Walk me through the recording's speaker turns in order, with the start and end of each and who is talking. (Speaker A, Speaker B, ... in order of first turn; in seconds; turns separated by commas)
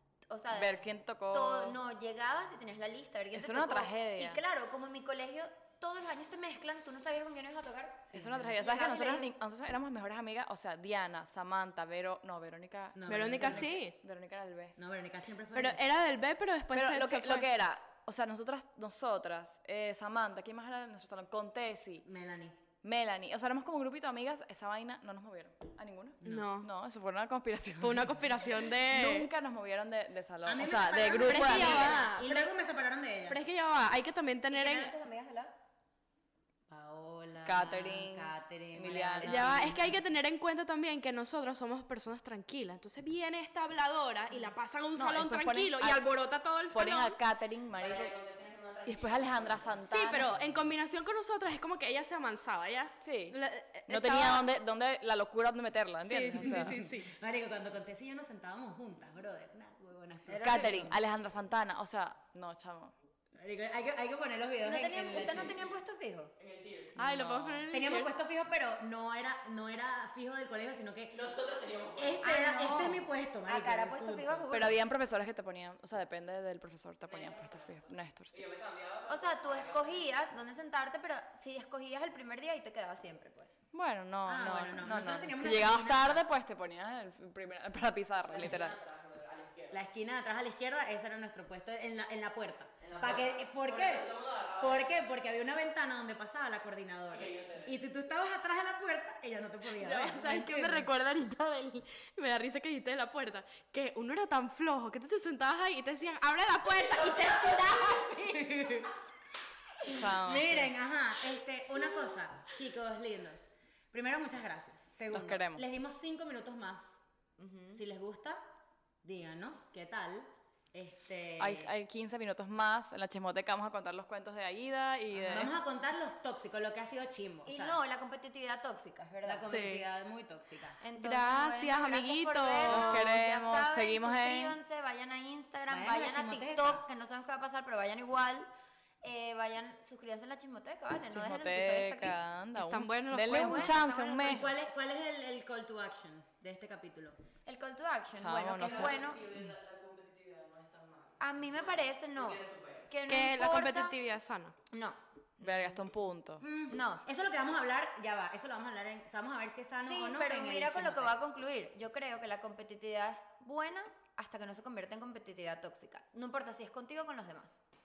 Speaker A: 0.3-9.3, Speaker B: 0.5-1.8, Speaker B: 3.3-4.4, Speaker C: 8.1-8.6, Speaker B: 8.1-14.8, Speaker C: 13.0-13.8, Speaker D: 13.1-13.9, Speaker C: 14.8-15.8, Speaker D: 15.5-17.5, Speaker B: 16.7-22.1, Speaker C: 22.0-22.6, Speaker B: 22.8-32.0, Speaker D: 26.2-26.7, Speaker C: 26.2-26.5, Speaker D: 27.8-29.3, Speaker C: 30.5-33.4, Speaker D: 31.1-32.5, Speaker D: 33.3-34.9, Speaker A: 34.5-35.5, Speaker C: 36.7-39.9, Speaker B: 37.4-39.8, Speaker D: 39.2-47.2, Speaker B: 45.0-46.1, Speaker B: 46.7-48.1, Speaker E: 47.8-50.6, Speaker B: 48.9-50.3, Speaker D: 49.8-54.5, Speaker B: 53.0-56.8, Speaker D: 56.0-57.1, Speaker C: 56.3-61.0, Speaker A: 60.3-60.9, Speaker B: 60.4-62.9, Speaker C: 63.4-65.6, Speaker A: 64.6-66.3, Speaker E: 66.4-67.0, Speaker D: 67.0-68.1, Speaker B: 67.0-67.7, Speaker C: 67.7-71.2, Speaker E: 71.1-72.9, Speaker C: 72.0-74.5, Speaker A: 72.2-74.8, Speaker B: 74.5-78.4, Speaker E: 77.1-80.1, Speaker A: 79.1-83.6, Speaker B: 83.7-88.8, Speaker C: 84.3-86.3, Speaker E: 88.3-89.8, Speaker C: 89.7-100.9, Speaker E: 92.8-95.0, Speaker E: 97.1-97.8, Speaker D: 99.8-107.7, Speaker C: 107.0-108.9, Speaker E: 107.2-108.0, Speaker C: 109.8-117.0, Speaker B: 109.9-110.7, Speaker B: 115.1-115.6, Speaker A: 117.4-117.8, Speaker C: 117.7-118.4, Speaker C: 119.0-121.7, Speaker B: 121.4-125.5, Speaker C: 125.1-127.8, Speaker A: 127.5-129.6, Speaker C: 129.2-130.8, Speaker D: 129.5-129.8, Speaker A: 130.8-138.5, Speaker D: 131.0-133.3, Speaker B: 132.7-134.6, Speaker C: 135.7-136.8, Speaker A: 139.0-142.2, Speaker B: 141.1-144.5, Speaker D: 142.6-143.7, Speaker A: 143.3-144.5, Speaker C: 144.2-147.2, Speaker A: 147.5-149.2, Speaker B: 148.2-149.0, Speaker E: 148.6-152.9, Speaker A: 151.2-153.9, Speaker D: 153.1-154.6, Speaker A: 154.7-155.9, Speaker B: 155.4-156.4, Speaker C: 156.4-161.2, Speaker A: 156.7-157.0, Speaker A: 159.8-167.6